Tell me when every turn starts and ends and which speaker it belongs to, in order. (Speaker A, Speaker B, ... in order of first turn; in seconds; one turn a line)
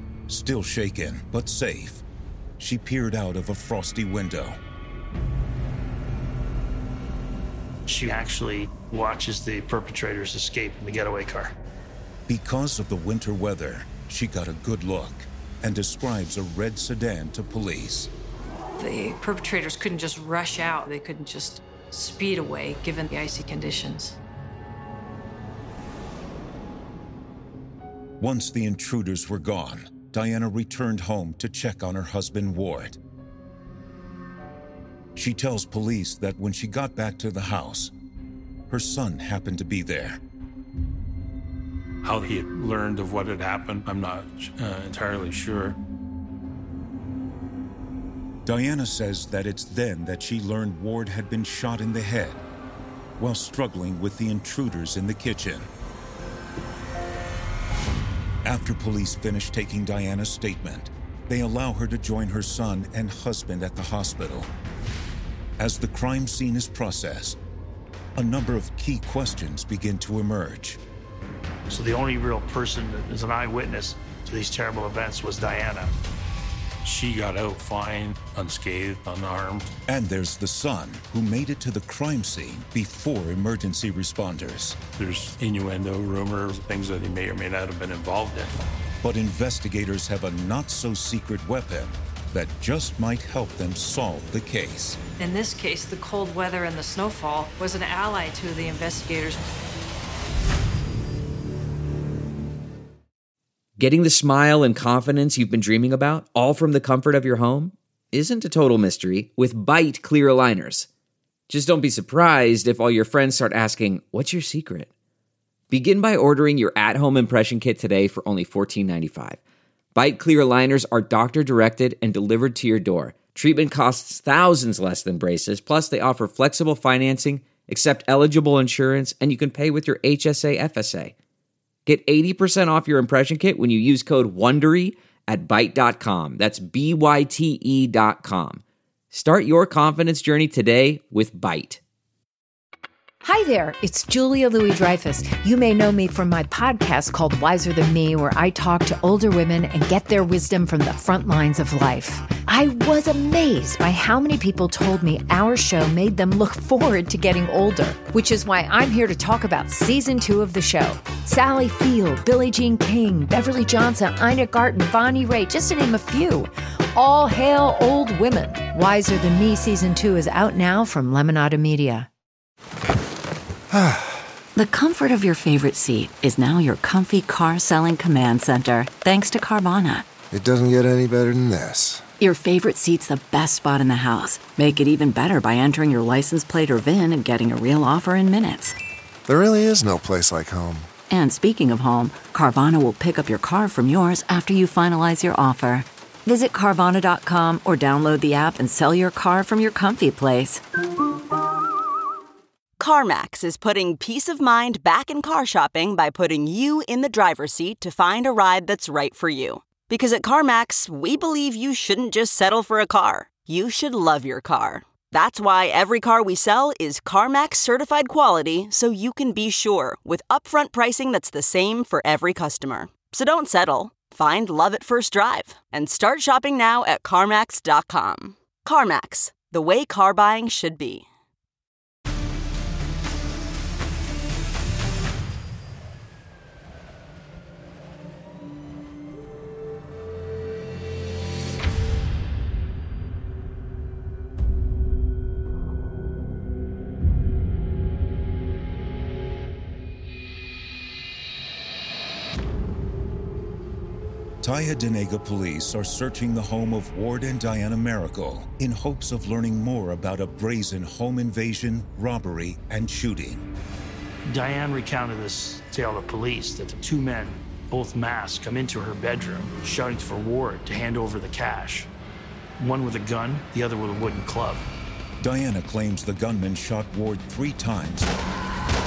Speaker A: 0.3-2.0
Speaker A: 2.6-4.6
Speaker B: 7.8-11.6
Speaker A: 12.3-18.1
Speaker C: 18.8-24.2
Speaker A: 28.2-33.0
Speaker A: 35.1-37.9
Speaker A: 38.7-40.2
Speaker D: 42.0-45.8
Speaker A: 48.4-52.4
Speaker A: 53.2-55.7
Speaker A: 58.4-64.5
Speaker A: 65.6-67.4
Speaker A: 68.2-70.8
Speaker B: 71.7-75.9
Speaker D: 76.8-79.7
Speaker A: 79.9-84.8
Speaker D: 85.0-88.5
Speaker A: 89.0-95.0
Speaker C: 95.2-99.4
Speaker E: 103.8-110.9
Speaker E: 111.5-114.9
Speaker E: 115.7-119.4
Speaker E: 119.9-131.1
Speaker E: 131.8-141.8
Speaker F: 143.2-172.1
Speaker G: 173.7-174.3
Speaker H: 174.5-180.1
Speaker G: 180.3-182.1
Speaker H: 182.2-188.8
Speaker G: 189.2-190.9
Speaker H: 191.1-200.6
Speaker I: 202.8-231.1
Speaker A: 254.4-263.5
Speaker B: 264.2-271.9
Speaker B: 272.6-274.7
Speaker A: 275.2-278.1